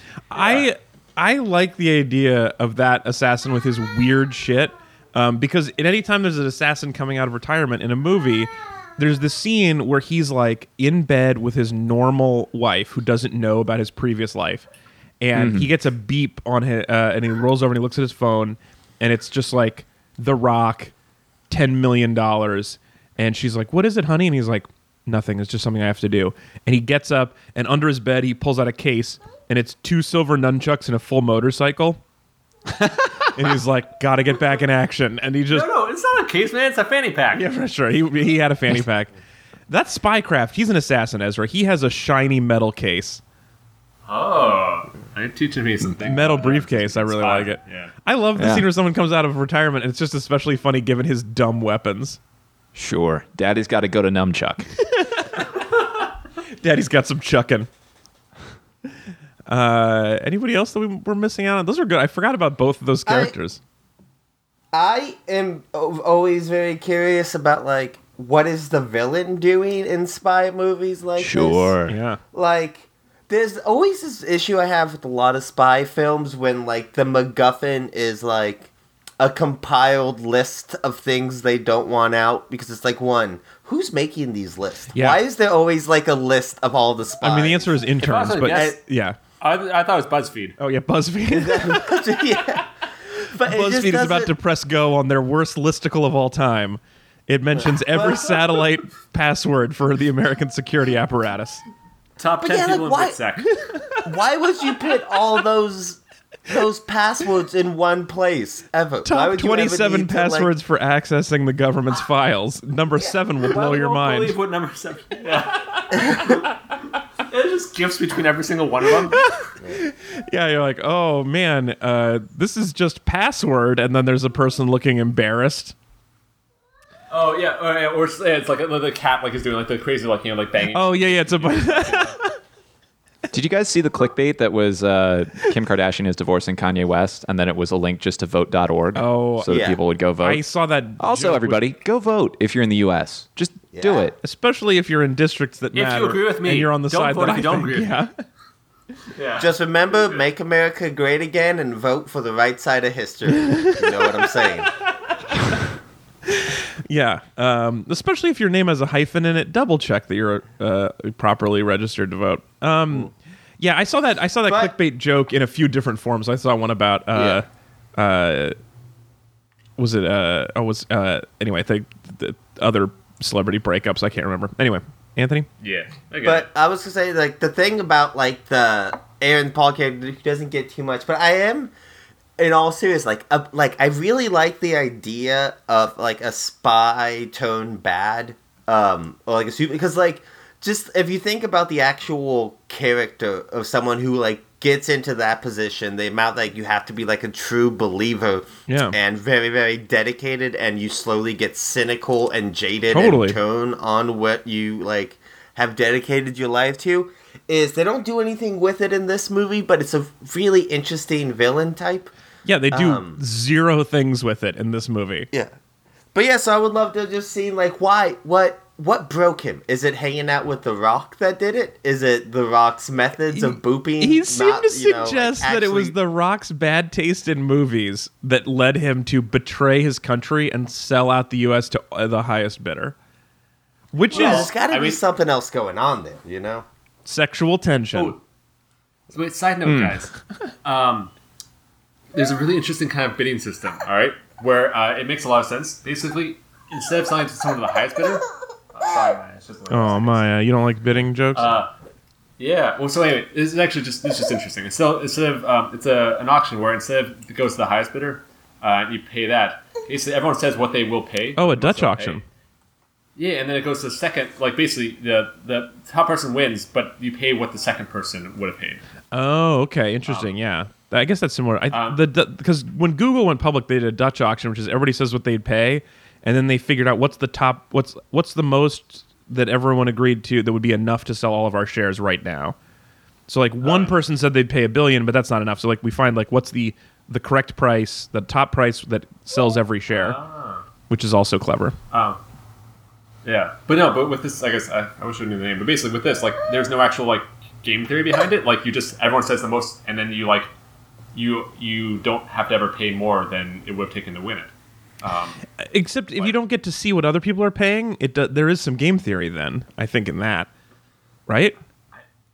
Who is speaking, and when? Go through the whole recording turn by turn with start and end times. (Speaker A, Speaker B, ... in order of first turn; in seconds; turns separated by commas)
Speaker A: 0.3-14.7, Speaker B: 0.3-0.7, Speaker A: 15.2-20.9, Speaker C: 15.3-15.7, Speaker A: 21.5-32.0, Speaker C: 32.7-33.4, Speaker A: 33.3-35.7, Speaker B: 35.5-37.5, Speaker A: 37.3-39.1, Speaker A: 39.7-43.2, Speaker B: 44.1-47.9, Speaker A: 46.0-52.2, Speaker C: 48.4-48.7, Speaker C: 52.8-54.8, Speaker A: 55.0-57.7, Speaker A: 59.5-63.6, Speaker D: 63.1-63.3, Speaker D: 64.7-71.8, Speaker C: 71.2-72.0, Speaker A: 71.9-72.2, Speaker D: 72.3-87.8, Speaker A: 84.9-85.2, Speaker A: 87.2-89.2, Speaker B: 88.0-88.8, Speaker D: 88.5-88.8, Speaker B: 89.4-90.6, Speaker A: 90.6-92.6, Speaker D: 91.3-92.7, Speaker D: 93.2-94.3, Speaker A: 93.4-101.6, Speaker D: 97.6-98.4, Speaker B: 102.2-103.5, Speaker D: 102.4-103.2, Speaker A: 103.7-104.0, Speaker D: 104.0-110.5, Speaker A: 109.0-114.4, Speaker B: 113.4-116.5, Speaker B: 117.2-119.2, Speaker A: 119.0-125.8, Speaker B: 127.1-132.2, Speaker A: 130.7-132.4, Speaker C: 133.3-140.4, Speaker A: 138.9-139.5, Speaker D: 139.5-139.8, Speaker A: 140.2-141.7, Speaker C: 141.0-144.2, Speaker D: 143.7-144.1, Speaker A: 144.2-148.1, Speaker B: 145.7-148.0, Speaker B: 149.1-150.2, Speaker D: 149.4-154.7, Speaker A: 153.5-154.1, Speaker A: 155.3-155.6, Speaker A: 156.3-168.6, Speaker D: 164.5-164.7, Speaker D: 167.1-167.4, Speaker A: 169.8-175.5, Speaker B: 175.6-176.5, Speaker D: 176.2-181.7, Speaker D: 182.4-212.1, Speaker A: 198.7-198.9, Speaker A: 202.9-203.4, Speaker A: 212.4-215.3, Speaker D: 212.7-213.2, Speaker D: 216.1-226.0, Speaker A: 223.3-232.9, Speaker A: 233.9-234.5, Speaker B: 234.1-235.0, Speaker D: 234.1-236.7, Speaker A: 237.1-238.2, Speaker B: 237.9-238.2, Speaker B: 239.1-240.1, Speaker C: 239.7-240.0, Speaker B: 240.7-241.1, Speaker B: 242.1-250.2, Speaker A: 249.7-251.6, Speaker B: 251.3-251.7, Speaker B: 252.4-262.2, Speaker A: 261.4-262.2, Speaker B: 263.2-268.8, Speaker A: 269.1-282.6, Speaker B: 270.1-270.4, Speaker B: 271.7-272.0, Speaker A: 283.3-290.2, Speaker B: 283.6-283.9, Speaker B: 289.9-290.7, Speaker A: 290.9-291.8, Speaker B: 291.9-292.2, Speaker B: 293.2-300.5, Speaker B: 301.1-304.5, Speaker B: 305.0-305.4, Speaker A: 305.6-310.5, Speaker A: 311.3-311.6